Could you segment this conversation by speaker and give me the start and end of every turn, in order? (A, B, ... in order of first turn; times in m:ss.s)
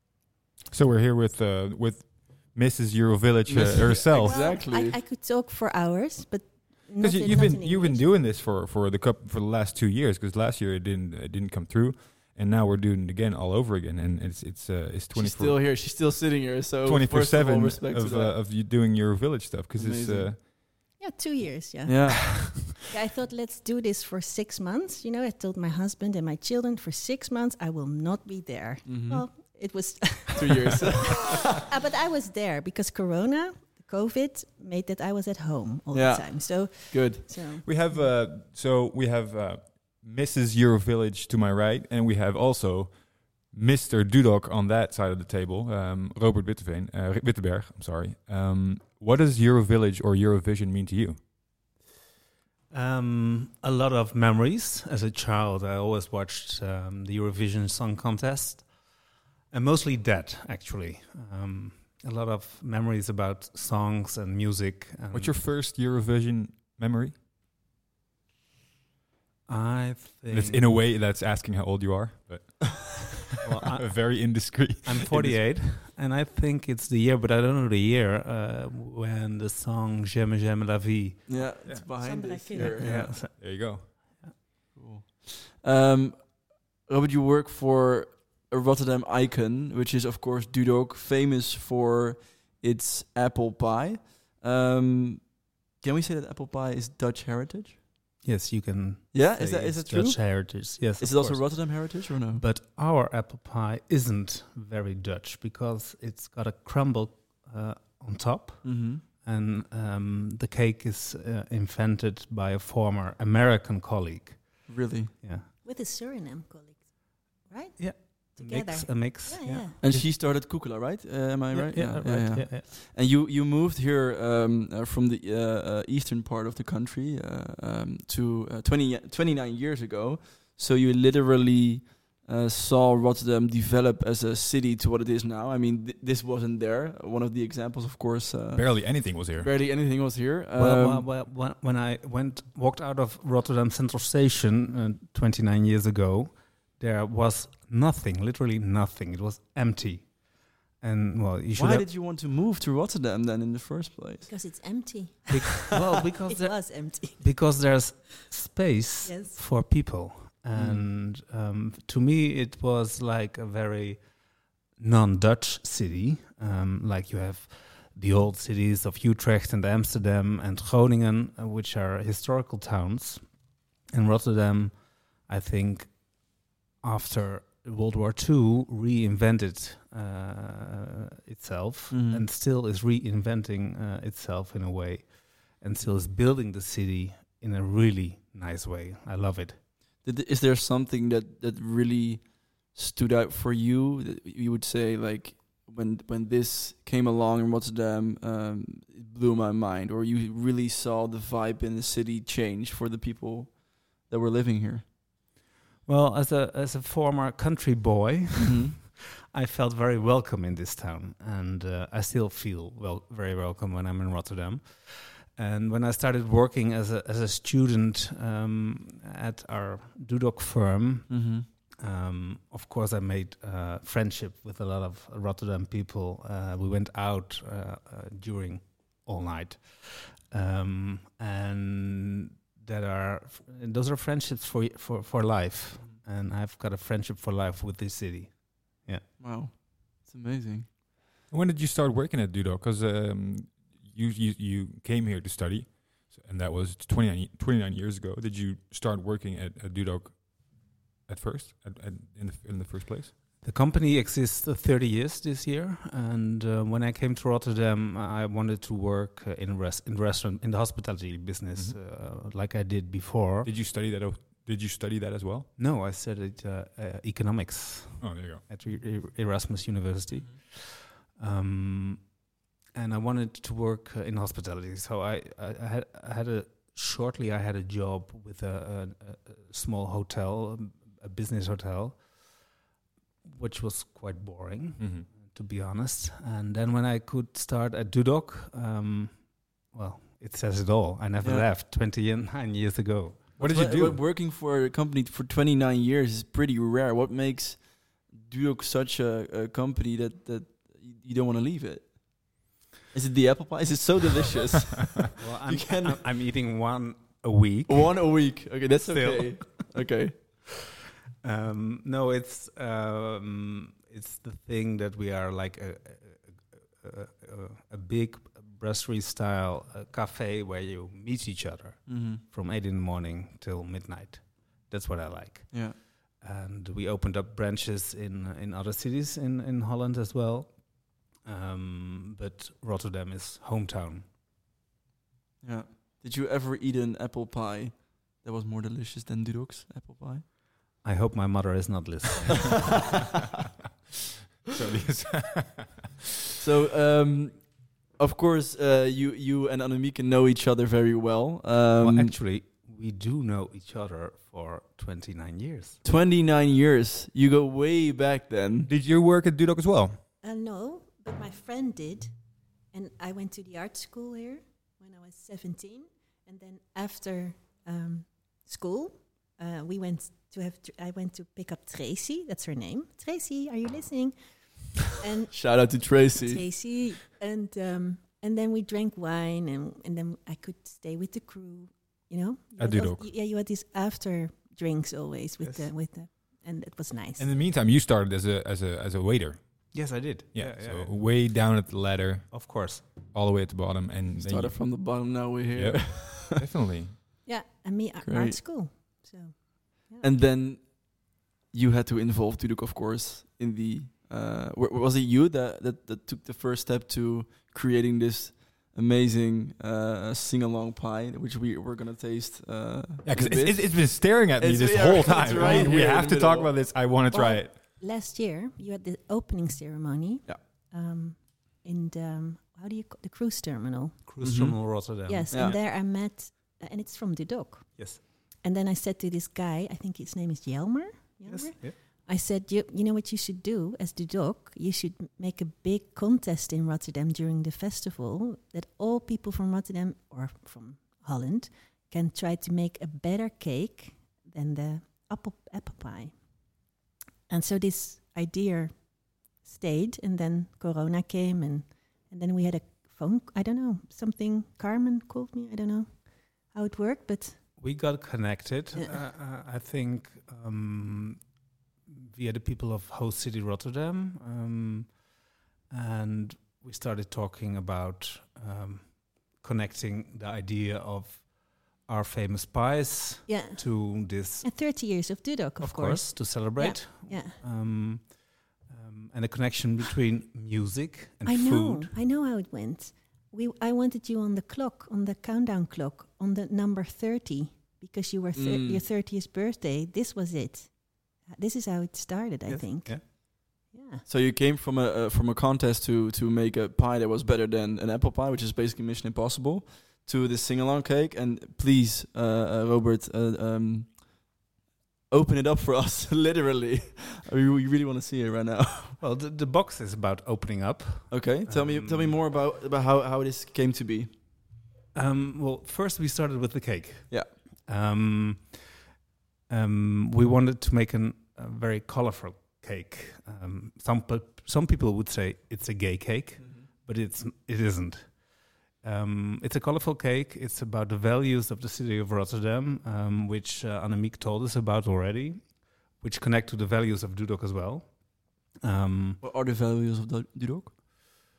0:00.7-0:04.4 A
0:03.4-0:05.0 B
0:04.1-0:08.0 C
0:07.0-0:16.0 A
0:15.1-0:18.4 B
0:16.8-0:20.4 A
0:19.8-0:20.3 B
0:21.0-0:38.0 C
0:21.8-0:22.3 B
0:22.4-0:22.7 A
0:28.8-0:29.2 B
0:30.3-0:31.4 B
0:35.9-0:37.4 B
0:37.6-0:51.3 A
0:52.7-0:58.9 D
0:59.5-1:05.4 D
1:05.1-1:07.2 A
1:09.5-1:10.7 D
1:10.3-1:15.4 A
1:13.4-1:21.5 D
1:21.3-1:23.2 B
1:21.9-1:22.8 C
1:22.5-1:24.3 D
1:22.8-1:23.9 A
1:24.7-1:37.8 B
1:38.2-1:55.5 D
1:39.1-1:42.4 B
1:48.6-1:49.0 B
1:54.7-1:55.1 B
1:55.6-1:59.8 C
1:57.8-2:00.0 D
1:59.8-2:21.1 B
2:01.5-2:02.6 D
2:18.6-2:19.5 A
2:20.6-2:30.2 D
2:30.7-2:31.9 D
2:31.5-2:34.8 B
2:34.3-2:37.4 C
2:35.3-2:44.1 D
2:39.0-2:39.4 C
2:40.5-2:40.8 B
2:44.8-3:09.6 D
3:01.9-3:02.2 B
3:10.0-3:24.8 B
3:25.8-3:59.0 D
3:28.4-3:28.7 B
3:41.1-3:41.4 B
3:59.2-4:00.7 B
4:01.3-4:13.1 A
4:13.4-4:23.5 D
4:23.4-4:25.5 A
4:25.6-4:32.2 D
4:28.0-4:28.4 A
4:32.7-4:42.5 D
4:43.2-4:53.4 D
4:44.8-4:45.1 A
4:51.2-4:51.4 B
4:53.4-4:54.0 A
4:53.4-5:02.4 B
5:02.9-5:06.0 B
5:05.2-5:09.7 D
5:07.7-5:10.1 B
5:11.2-5:34.1 D
5:21.9-5:22.2 B
5:25.5-5:25.8 B
5:35.4-5:40.2 B
5:40.8-5:42.8 D
5:44.4-5:46.0 A
5:46.4-5:52.1 B
5:51.8-5:55.8 D
5:55.8-5:58.7 B
5:58.7-6:00.0 A
6:00.2-6:27.3 C
6:15.3-6:16.5 B
6:22.6-6:23.0 A
6:25.4-6:25.7 D
6:27.2-6:34.8 A
6:29.7-6:31.1 D
6:32.3-6:32.8 D
6:34.2-6:36.4 B
6:35.5-6:37.0 A
6:37.2-6:40.1 C
6:38.0-6:38.4 B
6:40.0-6:56.5 B
6:53.0-6:57.6 A
6:55.4-6:55.7 D
6:57.1-7:04.0 C
7:04.1-7:05.6 D
7:04.2-7:05.6 B
7:05.0-7:26.6 C
7:11.2-7:11.8 D
7:27.3-7:37.4 C
7:37.6-7:41.3 D
7:41.9-7:45.0 D
7:45.7-7:54.6 D
7:53.3-7:57.4 C
7:55.6-8:02.0 D
8:01.2-8:14.0 C
8:08.3-8:08.8 B
8:12.5-8:13.0 D
8:14.0-8:24.2 B
8:25.1-8:29.0 B
8:29.0-8:32.2 D
8:31.1-8:34.1 B
8:34.9-8:38.8 D
8:39.5-8:59.2 D
8:46.4-8:46.7 B
8:59.2-9:00.7 B